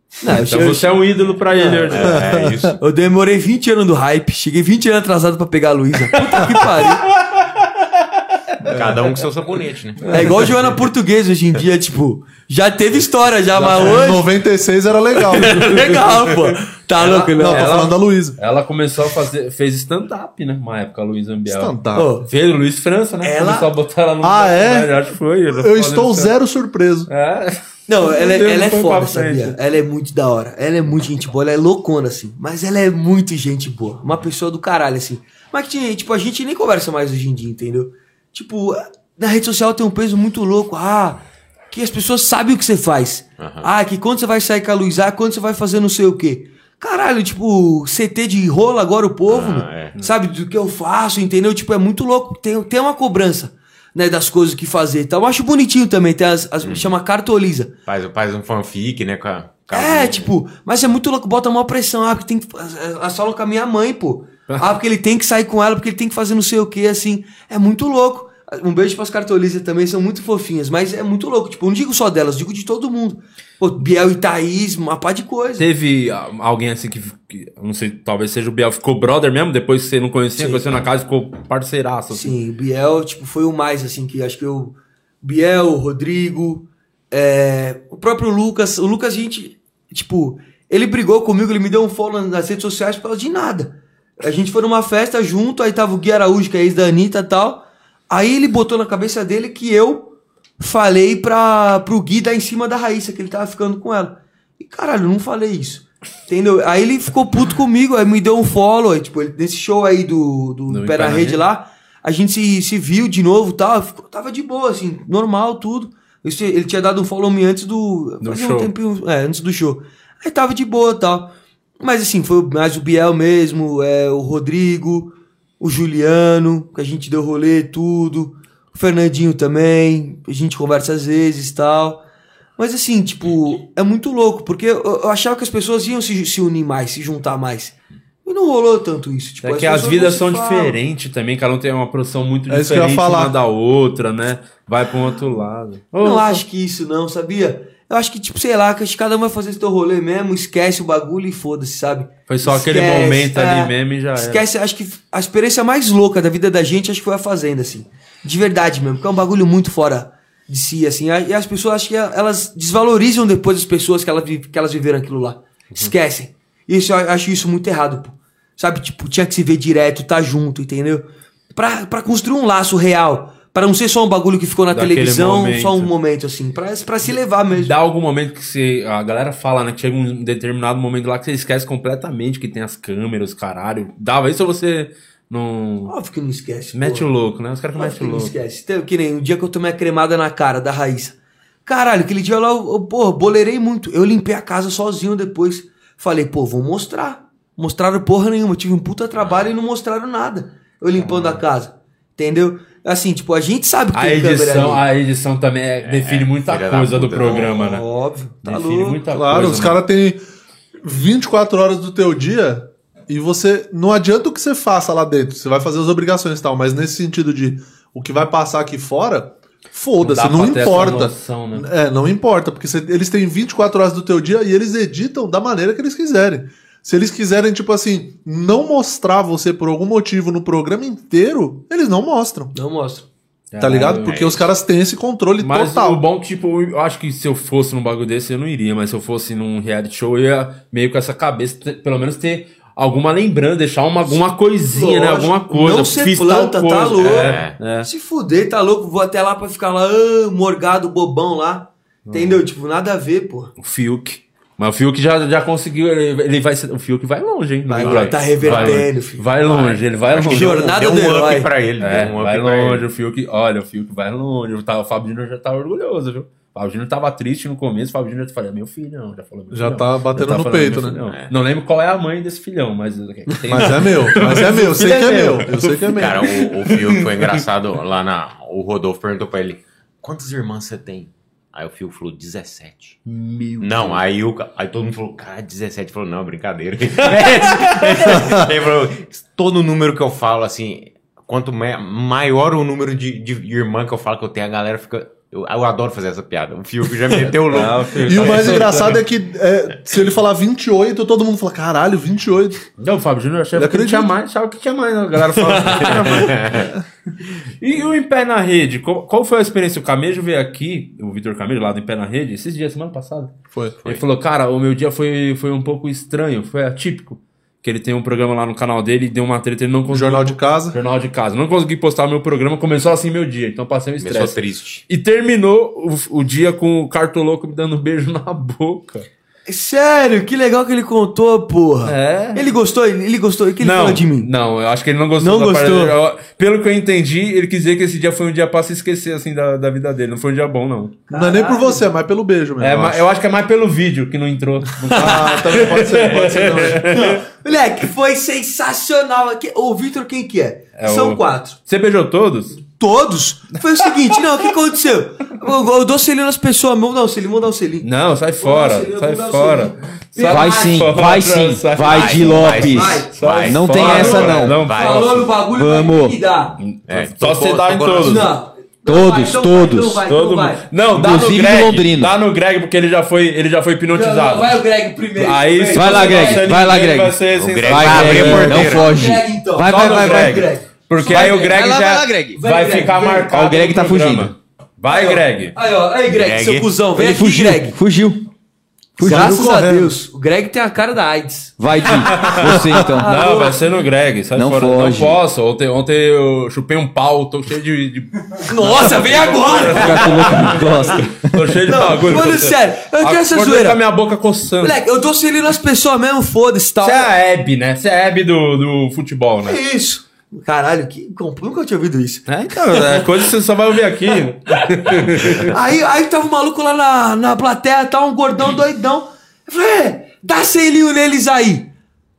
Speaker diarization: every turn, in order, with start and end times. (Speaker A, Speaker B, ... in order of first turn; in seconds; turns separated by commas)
Speaker A: 0.2-2.0, Speaker B: 0.3-2.2, Speaker C: 1.9-2.8, Speaker D: 2.1-2.7, Speaker A: 2.8-7.1, Speaker B: 6.3-8.7, Speaker C: 8.6-10.5, Speaker A: 10.1-14.2, Speaker B: 13.6-14.0, Speaker D: 13.6-15.9, Speaker A: 15.3-17.9, Speaker B: 15.7-16.4, Speaker B: 17.0-26.3, Speaker D: 17.1-18.4, Speaker D: 21.4-22.1, Speaker A: 21.9-22.3, Speaker A: 23.2-23.7, Speaker D: 24.2-27.1, Speaker B: 27.1-29.6, Speaker A: 27.9-57.7, Speaker C: 43.4-43.7, Speaker C: 49.3-50.0, Speaker C: 56.6-56.9, Speaker C: 57.9-60.3, Speaker A: 59.7-75.7, Speaker B: 75.6-82.3, Speaker A: 80.4-80.6, Speaker A: 82.1-132.0, Speaker B: 110.7-111.5, Speaker B: 118.2-118.7, Speaker A: 132.6-140.8, Speaker B: 139.4-146.4, Speaker D: 142.5-143.3, Speaker A: 146.0-177.7, Speaker B: 152.3-154.4, Speaker B: 174.7-175.9, Speaker B: 177.5-185.9, Speaker A: 185.9-187.1, Speaker B: 186.7-188.3, Speaker A: 187.8-191.1, Speaker A: 191.7-204.8, Speaker C: 199.2-199.5, Speaker B: 201.0-201.4, Speaker B: 203.9-207.8, Speaker C: 205.8-207.5, Speaker A: 207.4-209.0, Speaker B: 208.4-209.8, Speaker D: 209.1-210.2, Speaker D: 210.8-232.5, Speaker B: 220.0-221.7, Speaker A: 232.5-233.1, Speaker B: 233.5-234.4, Speaker D: 233.6-236.0, Speaker C: 234.1-234.5, Speaker B: 235.4-247.9, Speaker A: 244.7-253.5, Speaker C: 247.0-247.7, Speaker B: 252.1-252.4, Speaker B: 253.6-260.7, Speaker A: 257.7-259.4, Speaker C: 257.8-258.9, Speaker C: 259.4-262.8, Speaker A: 260.2-261.5, Speaker B: 261.8-277.4, Speaker D: 269.5-271.0, Speaker C: 271.1-271.3, Speaker D: 273.5-276.3, Speaker C: 275.9-283.0, Speaker B: 283.1-284.0, Speaker C: 283.6-298.7, Speaker B: 287.0-288.2, Speaker B: 297.4-299.0, Speaker D: 298.0-302.6, Speaker B: 302.8-306.7, Speaker D: 303.5-304.1, Speaker A: 305.6-306.1, Speaker C: 305.8-306.7, Speaker B: 307.6-313.3, Speaker D: 313.5-313.8, Speaker B: 313.8-329.1, Speaker D: 319.9-320.8, Speaker C: 324.0-324.8, Speaker A: 329.5-334.3, Speaker B: 331.8-332.5, Speaker B: 333.6-341.0, Speaker A: 335.2-335.9, Speaker A: 341.1-341.8, Speaker D: 341.1-343.0, Speaker B: 342.6-347.2, Speaker D: 344.9-346.9, Speaker A: 345.0-345.5, Speaker A: 346.9-351.6, Speaker B: 350.8-352.6, Speaker A: 352.6-357.9, Speaker B: 357.8-365.2, Speaker A: 358.4-360.9, Speaker E: 360.2-364.6, Speaker C: 361.8-365.4, Speaker A: 362.7-363.1, Speaker A: 363.7-366.6, Speaker E: 365.5-366.2, Speaker B: 366.6-368.3, Speaker C: 366.9-368.3, Speaker A: 368.0-370.6, Speaker E: 368.9-370.0, Speaker B: 370.1-374.6, Speaker E: 370.9-372.1, Speaker A: 373.9-376.5, Speaker B: 375.1-378.7, Speaker E: 375.7-380.5, Speaker C: 377.3-378.9, Speaker A: 378.2-381.5, Speaker B: 379.6-385.5, Speaker E: 381.1-382.4, Speaker A: 382.3-383.3, Speaker E: 383.2-384.3, Speaker A: 384.9-387.8, Speaker C: 386.1-386.8, Speaker E: 386.9-388.2, Speaker A: 389.0-393.6, Speaker E: 389.0-389.6, Speaker D: 389.0-389.9, Speaker E: 391.6-393.1, Speaker B: 392.1-404.8, Speaker E: 394.4-395.2, Speaker A: 398.4-400.9, Speaker E: 399.7-401.5, Speaker A: 401.6-403.8, Speaker A: 404.6-407.1, Speaker B: 406.8-409.6, Speaker A: 409.4-413.3, Speaker B: 412.3-415.5, Speaker A: 414.8-421.7